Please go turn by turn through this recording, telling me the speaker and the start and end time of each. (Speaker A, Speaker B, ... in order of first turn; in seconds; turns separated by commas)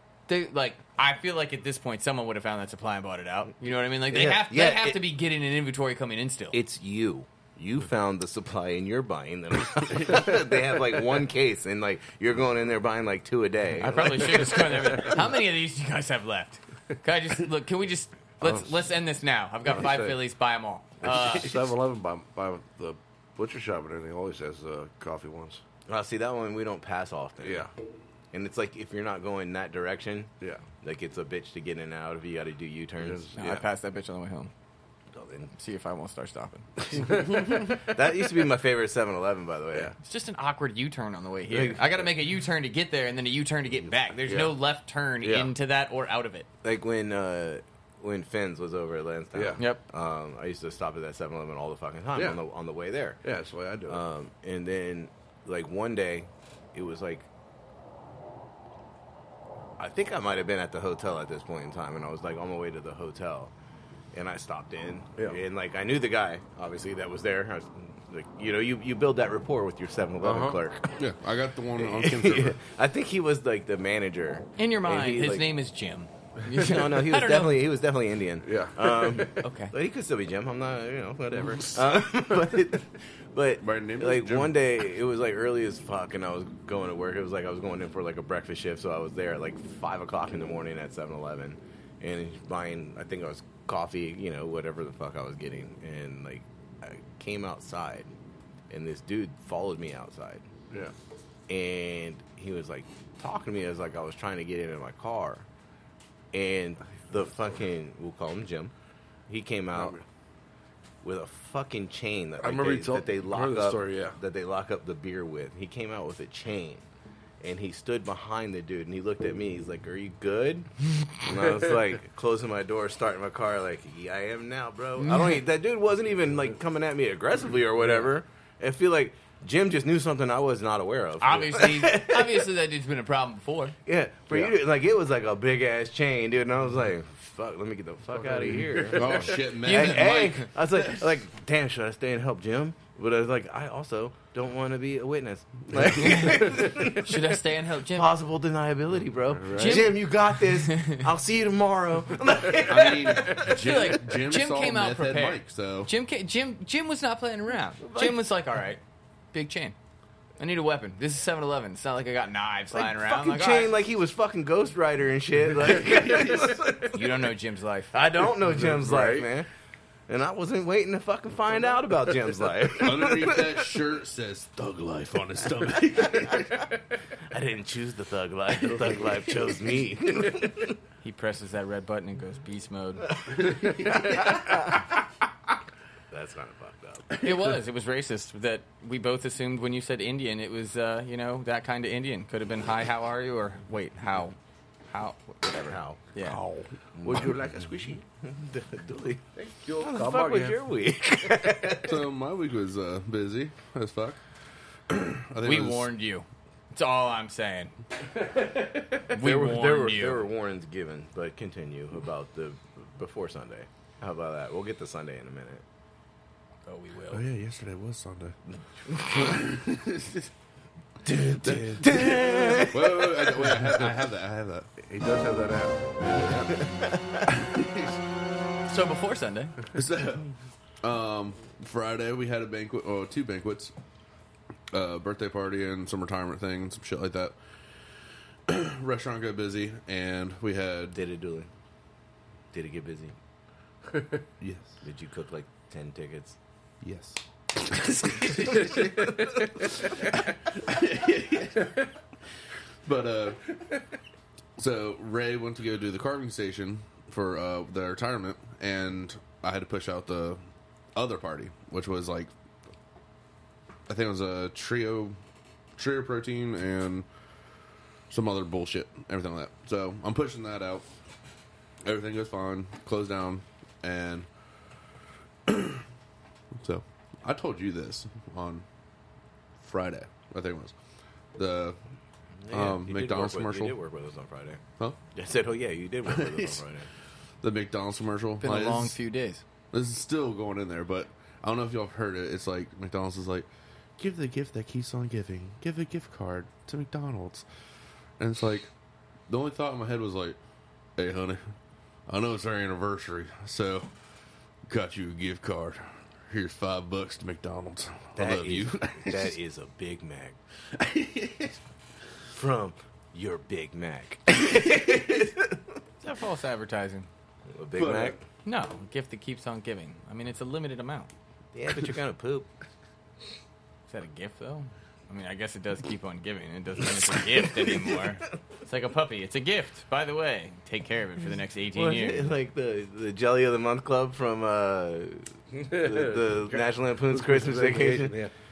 Speaker A: 0.3-6.6, Speaker B: 4.1-5.0, Speaker B: 6.5-15.2, Speaker A: 13.8-21.7, Speaker C: 18.4-18.8, Speaker C: 19.7-20.2, Speaker C: 21.0-25.6, Speaker B: 25.9-27.7, Speaker C: 27.4-27.7, Speaker B: 28.3-33.3, Speaker C: 33.0-33.6, Speaker A: 33.4-34.5, Speaker B: 35.2-35.5, Speaker A: 35.5-36.9, Speaker B: 37.0-39.9, Speaker A: 40.0-46.5, Speaker B: 41.5-42.1, Speaker C: 44.3-44.5, Speaker C: 45.2-45.5, Speaker B: 46.6-53.2, Speaker C: 49.3-49.6, Speaker C: 52.1-52.4, Speaker C: 53.2-54.0, Speaker B: 53.9-57.3, Speaker B: 59.8-63.5, Speaker B: 64.1-70.9, Speaker C: 70.2-70.6, Speaker D: 71.0-72.6, Speaker B: 71.8-75.5, Speaker A: 74.6-77.7, Speaker B: 76.5-98.1, Speaker C: 78.4-79.4, Speaker A: 79.4-79.7, Speaker D: 83.6-84.5, Speaker B: 98.7-100.5, Speaker B: 101.5-105.5, Speaker B: 106.3-108.7, Speaker B: 109.3-110.0, Speaker C: 109.7-110.0, Speaker B: 111.0-116.9, Speaker C: 112.4-114.2, Speaker B: 117.4-132.5, Speaker A: 125.0-125.4, Speaker A: 131.2-133.8, Speaker B: 133.9-147.2, Speaker C: 138.1-139.2, Speaker D: 138.9-141.0, Speaker A: 139.6-140.1, Speaker A: 146.0-148.1, Speaker B: 147.9-153.8, Speaker C: 149.3-149.9, Speaker A: 149.5-151.0, Speaker D: 152.6-155.9, Speaker A: 153.4-158.8, Speaker B: 157.8-158.2, Speaker A: 159.3-159.8, Speaker A: 160.4-163.8, Speaker B: 162.7-167.2, Speaker D: 165.9-166.5, Speaker A: 166.9-167.9, Speaker B: 167.9-169.5, Speaker C: 168.4-169.3, Speaker B: 170.1-173.8, Speaker D: 172.8-176.7, Speaker B: 177.3-180.8, Speaker A: 181.0-183.2, Speaker B: 183.4-184.7, Speaker D: 183.5-184.2, Speaker B: 186.1-187.1, Speaker A: 187.2-194.4, Speaker A: 194.9-196.4, Speaker B: 195.7-196.0, Speaker D: 196.2-196.7, Speaker B: 197.0-199.2, Speaker C: 197.0-198.0, Speaker C: 199.3-200.6, Speaker B: 199.8-202.0, Speaker D: 201.8-204.2, Speaker D: 204.9-205.9, Speaker A: 205.4-207.7, Speaker B: 209.1-215.6, Speaker A: 209.1-210.3, Speaker A: 216.7-217.2, Speaker D: 217.1-218.4, Speaker B: 218.5-219.4, Speaker D: 219.0-220.3, Speaker B: 221.0-223.6, Speaker D: 221.4-224.7, Speaker C: 224.8-226.5, Speaker D: 226.0-226.5, Speaker D: 227.3-228.0, Speaker A: 228.7-229.6, Speaker D: 229.7-230.3, Speaker D: 230.8-233.7, Speaker D: 234.7-237.4, Speaker D: 238.5-241.0, Speaker B: 240.9-241.5, Speaker B: 242.5-243.2, Speaker D: 244.4-244.8, Speaker B: 244.8-246.4, Speaker D: 246.8-251.9, Speaker D: 252.8-253.4, Speaker D: 254.6-260.4, Speaker D: 260.9-262.3, Speaker D: 263.9-265.2, Speaker D: 265.8-267.1, Speaker D: 268.1-270.9, Speaker D: 271.8-274.3, Speaker D: 275.5-275.8, Speaker D: 276.6-278.6, Speaker D: 279.6-280.7, Speaker D: 281.4-281.8, Speaker B: 282.4-284.6, Speaker D: 282.5-283.8, Speaker B: 285.1-286.9, Speaker D: 286.1-286.6, Speaker D: 287.4-288.9, Speaker A: 288.4-289.4, Speaker D: 289.7-297.4, Speaker D: 298.2-298.7, Speaker D: 299.3-300.4, Speaker D: 301.0-301.5, Speaker D: 302.1-303.9, Speaker D: 304.7-309.4, Speaker B: 308.2-310.4, Speaker D: 310.8-311.6, Speaker B: 312.3-315.6, Speaker A: 316.0-317.1, Speaker B: 317.5-318.2, Speaker D: 317.8-318.2, Speaker A: 318.4-321.1, Speaker B: 321.5-322.5, Speaker A: 323.9-332.3, Speaker B: 331.8-338.2, Speaker C: 335.6-338.3